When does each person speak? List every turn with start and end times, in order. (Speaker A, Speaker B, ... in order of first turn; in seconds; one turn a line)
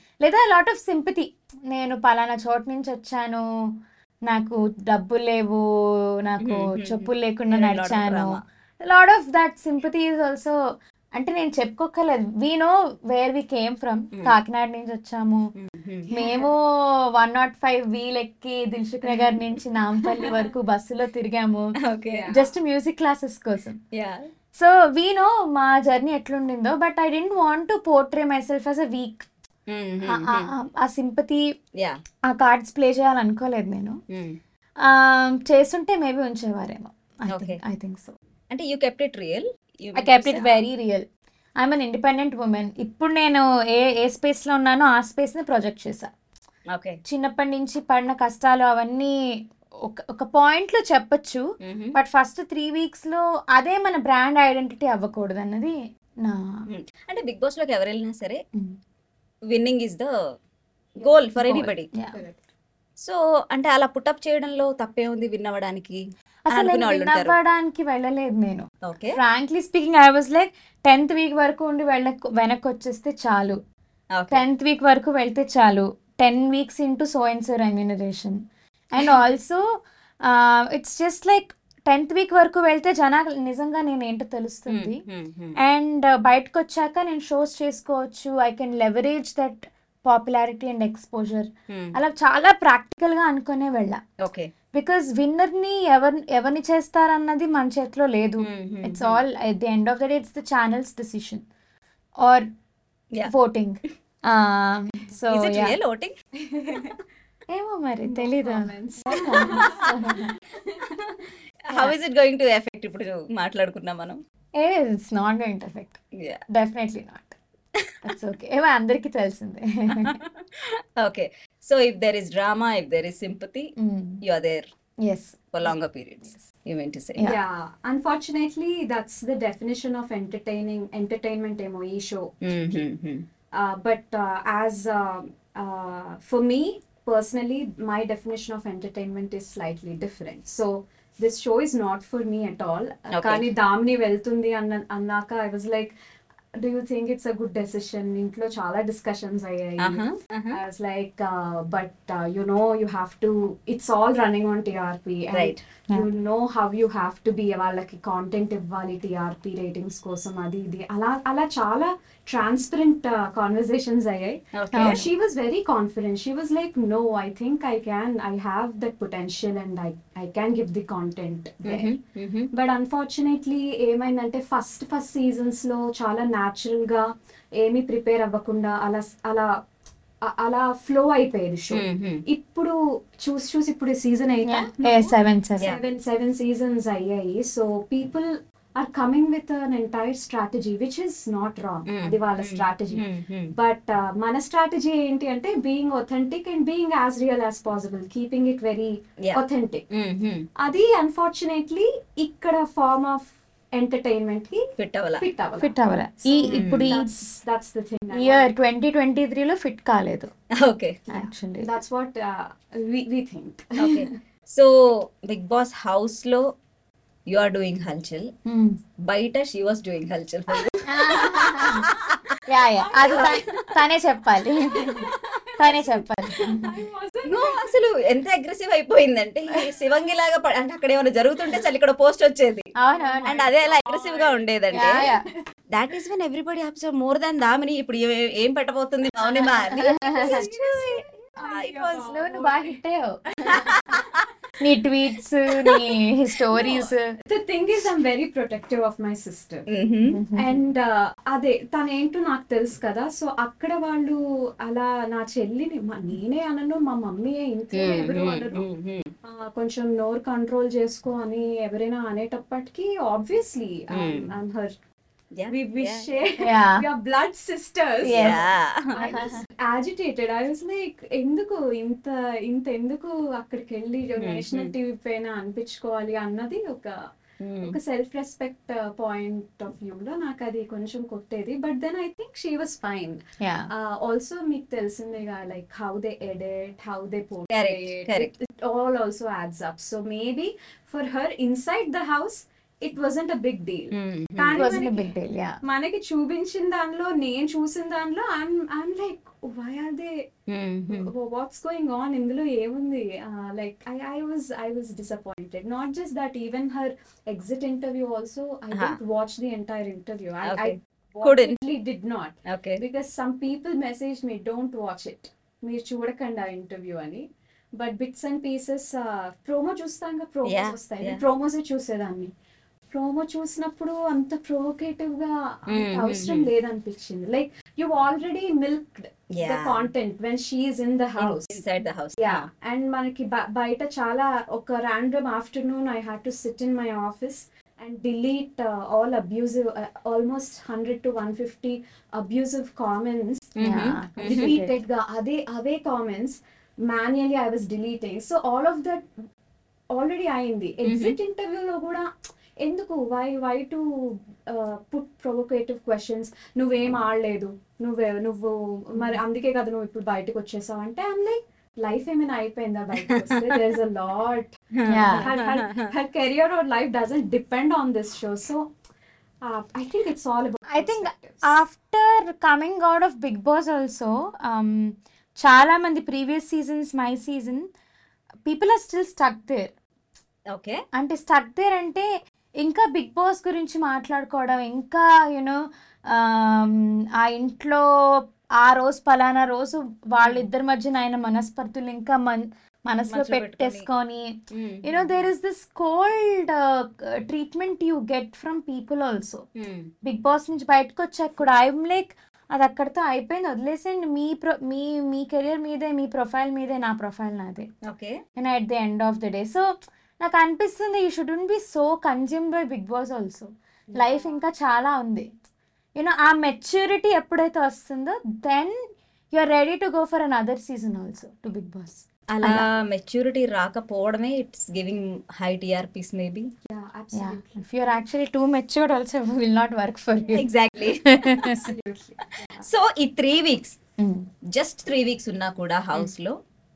Speaker A: 0.2-3.4
Speaker A: 4.3-5.6
Speaker A: 6.2-10.6
Speaker B: 6.4-8.4
Speaker A: 11.2-15.5
Speaker B: 15.6-16.1
Speaker A: 16.1-21.8
Speaker C: 16.1-16.5
Speaker B: 19.1-19.4
Speaker B: 21.8-22.3
Speaker C: 22.1-22.5
Speaker A: 22.3-23.8
Speaker B: 23.9-24.3
Speaker A: 24.5-29.3
Speaker B: 29.7-30.5
Speaker A: 30.1-31.4
Speaker A: 32.3-34.0
Speaker B: 34.1-34.4
Speaker A: 34.8-38.1
Speaker B: 37.3-37.6
Speaker B: 38.5-40.5
Speaker A: 40.0-41.0
Speaker A: 41.6-46.1
Speaker B: 46.7-47.0
Speaker A: 47.0-49.2
Speaker A: 49.8-51.4
Speaker B: 51.6-52.0
Speaker A: 52.0-56.6
Speaker B: 56.7-58.4
Speaker B: 59.5-60.1
Speaker C: 61.0-61.2
Speaker B: 61.0-61.9
Speaker A: 61.4-62.2
Speaker C: 62.1-62.4
Speaker B: 63.0-67.4
Speaker A: 66.5-73.6
Speaker B: 68.8-69.2
Speaker B: 74.2-74.4
Speaker A: 74.3-78.4
Speaker A: 78.9-85.0
Speaker B: 84.7-85.6
Speaker A: 85.6-94.0
Speaker B: 91.7-92.0
Speaker B: 94.2-94.5
Speaker A: 94.7-101.5
Speaker B: 98.4-99.2
Speaker A: 102.2-102.5
Speaker A: 103.2-105.8
Speaker B: 105.3-106.1
Speaker C: 106.5-107.0
Speaker A: 107.5-110.3
Speaker C: 108.0-109.9
Speaker B: 109.3-109.8
Speaker C: 110.7-111.1
Speaker B: 111.7-114.2
Speaker A: 114.6-116.0
Speaker B: 116.2-116.4
Speaker A: 116.5-117.4
Speaker A: 118.0-120.2
Speaker B: 120.0-123.7
Speaker A: 123.8-124.2
Speaker B: 124.2-124.7
Speaker A: 125.0-125.4
Speaker B: 125.5-127.3
Speaker C: 127.3-132.3
Speaker B: 132.4-133.3
Speaker C: 133.5-145.9
Speaker B: 143.1-143.5
Speaker C: 146.6-172.0
Speaker B: 149.8-150.6
Speaker B: 155.3-155.6
Speaker B: 164.6-165.1
Speaker A: 164.7-165.1
Speaker B: 171.7-172.5
Speaker C: 172.5-179.5
Speaker C: 180.2-199.8
Speaker B: 181.7-182.2
Speaker A: 184.5-185.7
Speaker B: 191.9-193.5
Speaker B: 199.9-200.5
Speaker C: 200.6-204.6
Speaker B: 204.8-205.3
Speaker C: 205.2-208.5
Speaker A: 205.6-207.2
Speaker B: 206.6-207.0
Speaker A: 208.1-210.3
Speaker B: 210.6-211.0
Speaker A: 211.1-211.8
Speaker C: 211.6-214.1
Speaker B: 213.8-216.5
Speaker B: 217.3-218.3
Speaker A: 218.5-218.8
Speaker B: 219.0-222.4
Speaker A: 220.8-221.9
Speaker C: 221.2-221.9
Speaker A: 222.5-226.8
Speaker C: 222.8-223.4
Speaker B: 223.0-223.7
Speaker C: 224.7-227.8
Speaker B: 227.3-232.7
Speaker A: 232.8-233.3
Speaker C: 232.9-235.2
Speaker B: 233.3-235.0
Speaker A: 234.7-235.2
Speaker B: 235.7-242.1
Speaker A: 239.4-240.4
Speaker C: 240.1-242.8
Speaker A: 242.0-243.8
Speaker B: 243.5-244.3
Speaker A: 244.6-247.1
Speaker C: 246.6-249.7
Speaker B: 249.7-250.2
Speaker A: 250.1-250.6
Speaker C: 250.4-258.7
Speaker B: 257.7-259.1
Speaker C: 259.2-264.7
Speaker B: 263.9-264.3
Speaker B: 265.4-266.1
Speaker C: 265.5-277.0
Speaker A: 266.4-266.9
Speaker A: 268.0-268.4
Speaker B: 268.2-268.9
Speaker A: 269.0-269.4
Speaker B: 274.2-274.7
Speaker B: 277.4-277.8
Speaker C: 277.6-295.1
Speaker A: 283.4-283.7
Speaker B: 287.5-288.3
Speaker B: 293.9-294.7
Speaker A: 294.6-295.6
Speaker C: 295.6-300.3
Speaker B: 300.5-301.1
Speaker C: 300.9-322.3
Speaker B: 310.4-311.6
Speaker B: 312.5-312.8
Speaker B: 320.5-321.2
Speaker C: 322.9-331.6
Speaker B: 325.7-326.5
Speaker B: 329.3-329.9
Speaker B: 331.2-332.5
Speaker C: 332.2-343.6
Speaker B: 343.6-344.6
Speaker A: 343.6-344.8
Speaker C: 344.2-349.1
Speaker C: 349.9-352.1
Speaker B: 350.9-351.2
Speaker C: 352.6-364.5
Speaker B: 363.1-363.6
Speaker B: 364.8-365.9
Speaker A: 364.9-365.3
Speaker C: 365.1-368.7
Speaker C: 369.4-371.6
Speaker A: 370.7-377.7
Speaker A: 378.4-379.7
Speaker B: 380.5-380.8
Speaker A: 380.9-382.1
Speaker A: 382.6-387.9
Speaker A: 388.6-399.4
Speaker B: 393.1-393.9
Speaker B: 394.5-395.3
Speaker B: 399.6-399.9
Speaker A: 400.0-407.7
Speaker B: 407.9-408.2
Speaker A: 408.4-415.3
Speaker C: 414.0-414.3
Speaker A: 416.0-422.7
Speaker B: 422.3-426.5
Speaker C: 426.7-427.7
Speaker A: 427.1-431.7
Speaker B: 430.4-431.6
Speaker C: 431.4-432.7
Speaker B: 432.6-433.8
Speaker A: 434.0-434.3
Speaker B: 434.5-436.4